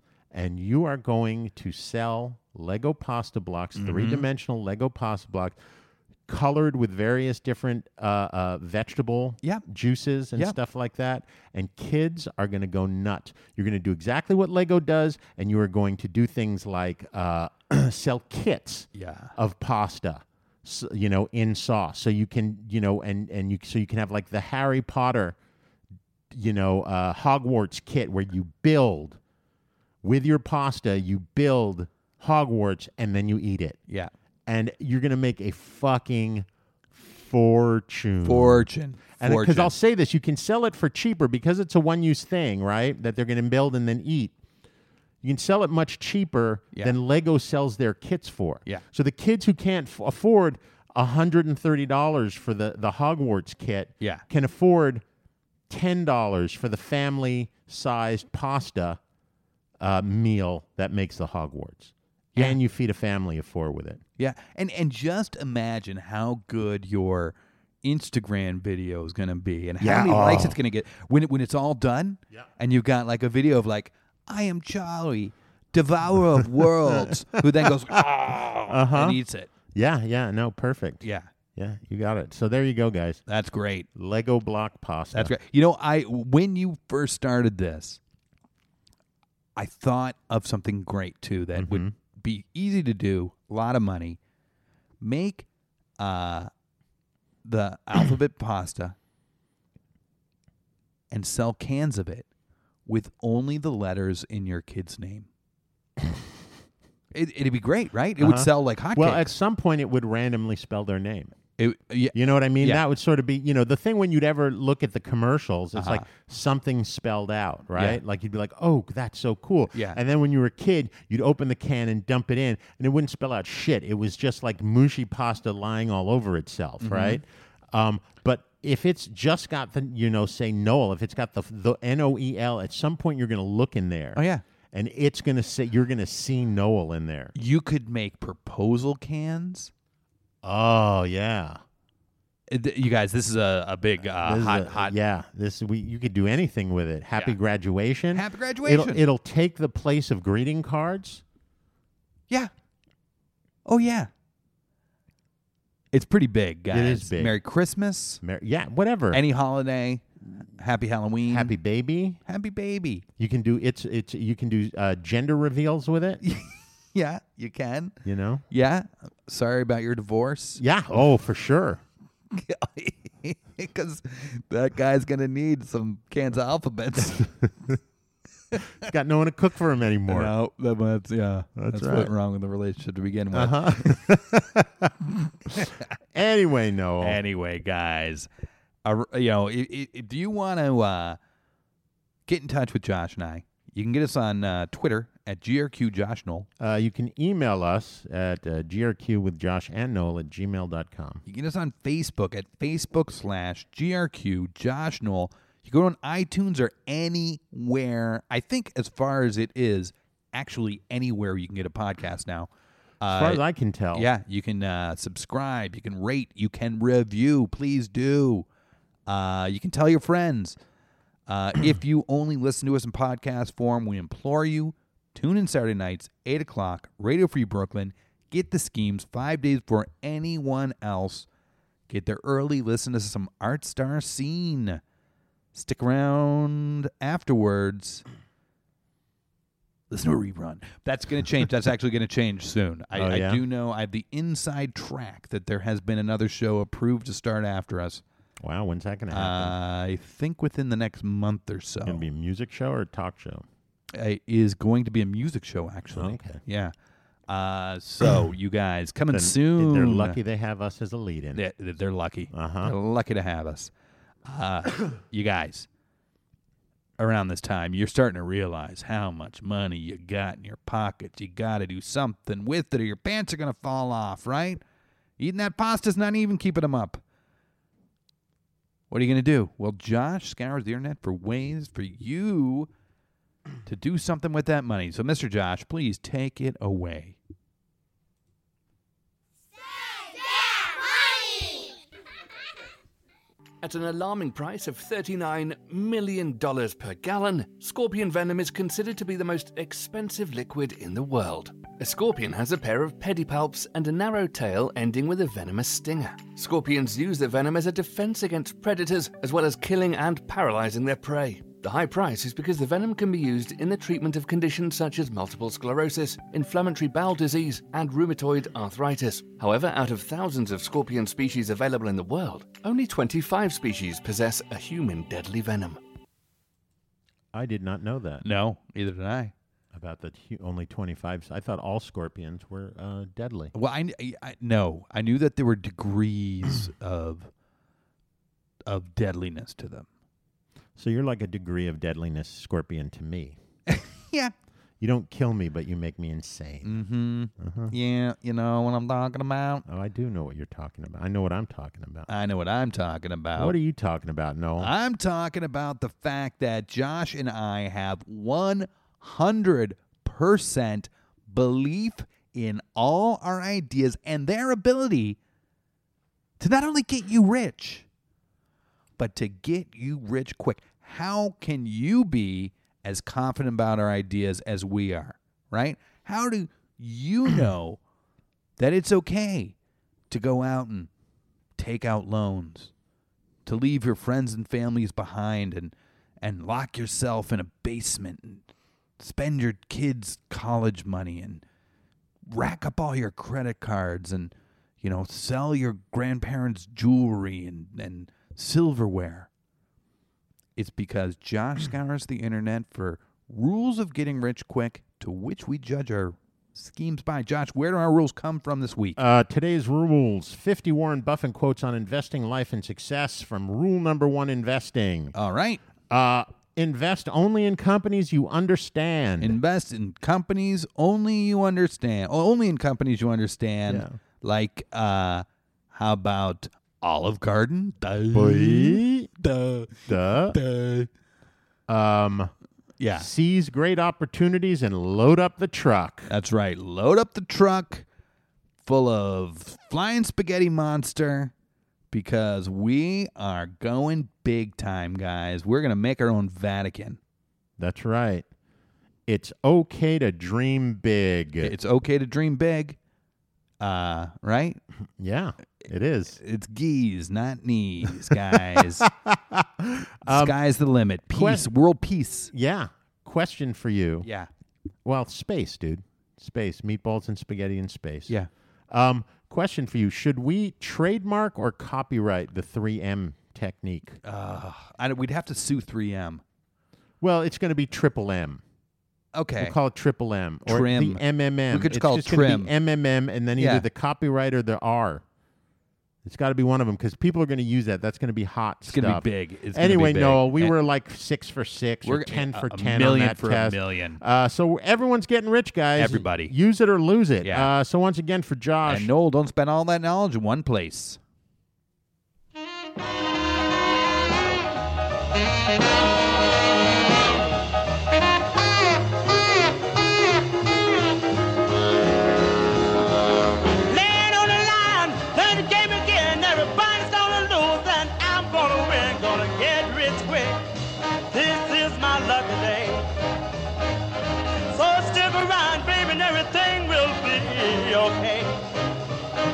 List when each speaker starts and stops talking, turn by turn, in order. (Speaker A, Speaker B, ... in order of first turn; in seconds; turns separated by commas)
Speaker A: 0.3-5.6, Speaker B: 3.8-4.2, Speaker A: 6.2-25.4, Speaker B: 18.9-19.3, Speaker A: 26.3-29.2, Speaker A: 30.0-33.8, Speaker A: 34.5-44.3, Speaker B: 38.2-39.7, Speaker A: 45.2-55.0, Speaker A: 55.7-59.0, Speaker A: 59.8-64.0, Speaker B: 64.2-79.5, Speaker A: 69.8-70.6, Speaker A: 78.7-79.2, Speaker A: 79.7-83.2, Speaker B: 81.0-81.3, Speaker B: 83.2-83.9, Speaker A: 83.9-85.4, Speaker B: 85.1-88.0, Speaker B: 89.5-94.2, Speaker A: 91.5-91.9, Speaker B: 95.0-95.5, Speaker B: 96.0-96.5, Speaker B: 97.4-99.0, Speaker B: 101.1-102.3, Speaker B: 102.9-105.3, Speaker B: 107.1-109.3, Speaker A: 108.2-111.4, Speaker B: 111.6-112.8, Speaker A: 112.1-137.3, Speaker B: 115.7-116.1, Speaker B: 117.7-118.0, Speaker B: 119.7-120.0, Speaker B: 126.8-127.2, Speaker B: 134.2-134.4, Speaker B: 137.3-139.7, Speaker A: 140.4-141.6, Speaker B: 142.5-145.0, Speaker A: 144.2-151.2, Speaker B: 148.1-149.0, Speaker B: 153.7-154.1, Speaker B: 155.9-158.2, Speaker A: 156.7-157.4, Speaker A: 158.2-159.2, Speaker B: 159.1-161.5, Speaker A: 161.2-162.2, Speaker B: 162.2-163.0, Speaker A: 163.2-166.2, Speaker B: 166.2-168.0, Speaker A: 168.0-168.4, Speaker B: 168.5-170.6, Speaker A: 170.6-171.8, Speaker B: 172.3-177.3, Speaker A: 178.8-180.3, Speaker B: 180.1-184.0, Speaker A: 181.6-182.1, Speaker A: 183.3-184.9, Speaker A: 186.1-187.2, Speaker B: 187.0-188.3, Speaker B: 188.8-191.2, Speaker B: 192.3-196.5, Speaker A: 196.6-201.2, Speaker B: 201.2-213.4, Speaker A: 213.1-214.1, Speaker B: 213.9-218.4, Speaker B: 219.1-220.6, Speaker B: 221.3-231.2, Speaker B: 231.9-234.8, Speaker B: 235.5-238.0, Speaker B: 239.9-248.0, Speaker A: 242.9-243.4, Speaker A: 248.4-249.6, Speaker B: 249.1-252.0, Speaker A: 251.8-253.5, Speaker B: 253.9-256.7, Speaker A: 255.9-256.4, Speaker B: 257.3-260.2, Speaker A: 259.1-261.4, Speaker B: 261.3-263.7, Speaker A: 262.3-262.7, Speaker B: 264.2-265.7, Speaker B: 267.0-274.6, Speaker B: 275.2-277.0, Speaker B: 278.9-282.7, Speaker B: 283.6-287.2, Speaker C: 293.6-325.8, Speaker A: 327.3-328.2, Speaker B: 328.2-329.3, Speaker A: 329.7-333.5, Speaker B: 333.5-337.3, Speaker B: 338.6-339.9, Speaker A: 340.8-343.4, Speaker B: 343.7-344.3, Speaker A: 344.8-346.8, Speaker B: 346.6-349.6, Speaker A: 347.4-347.7, Speaker A: 349.6-352.1, Speaker B: 352.1-353.6, Speaker A: 353.4-354.7, Speaker B: 354.6-365.2, Speaker B: 366.4-367.9, Speaker B: 369.0-377.8, Speaker B: 378.6-379.5, Speaker B: 380.1-380.9, Speaker B: 381.6-382.7, Speaker B: 383.4-388.5, Speaker B: 389.0-391.4, Speaker B: 392.3-399.3, Speaker B: 400.6-409.0, Speaker A: 408.9-415.1, Speaker B: 415.1-415.6, Speaker A: 415.9-419.4, Speaker B: 419.2-430.9, Speaker A: 423.7-424.0, Speaker A: 428.1-429.1, Speaker A: 429.9-430.4, Speaker A: 431.7-432.3, Speaker B: 432.8-433.1, Speaker A: 432.9-436.1, Speaker B: 436.1-437.8, Speaker B: 438.6-441.3, Speaker B: 441.9-447.0, Speaker A: 447.6-448.2, Speaker A: 449.1-451.5, Speaker B: 451.4-452.8, Speaker B: 453.6-454.6, Speaker A: 455.0-456.2, Speaker B: 456.2-458.9, Speaker A: 458.1-460.4, Speaker B: 460.0-462.3, Speaker A: 461.1-461.5, Speaker A: 462.3-464.1, Speaker B: 464.0-464.3, Speaker A: 464.8-468.1, Speaker A: 468.7-474.0, Speaker B: 474.0-476.2, Speaker A: 477.0-478.4, Speaker B: 479.1-479.6, Speaker A: 479.4-485.0, Speaker B: 480.5-482.5, Speaker B: 483.4-483.7, Speaker A: 486.0-498.9, Speaker B: 488.7-490.6, Speaker B: 491.8-494.0, Speaker B: 495.8-496.3, Speaker B: 497.2-497.5, Speaker B: 498.6-501.0, Speaker D: 513.7-520.4, Speaker D: 521.1-522.9, Speaker D: 524.5-528.3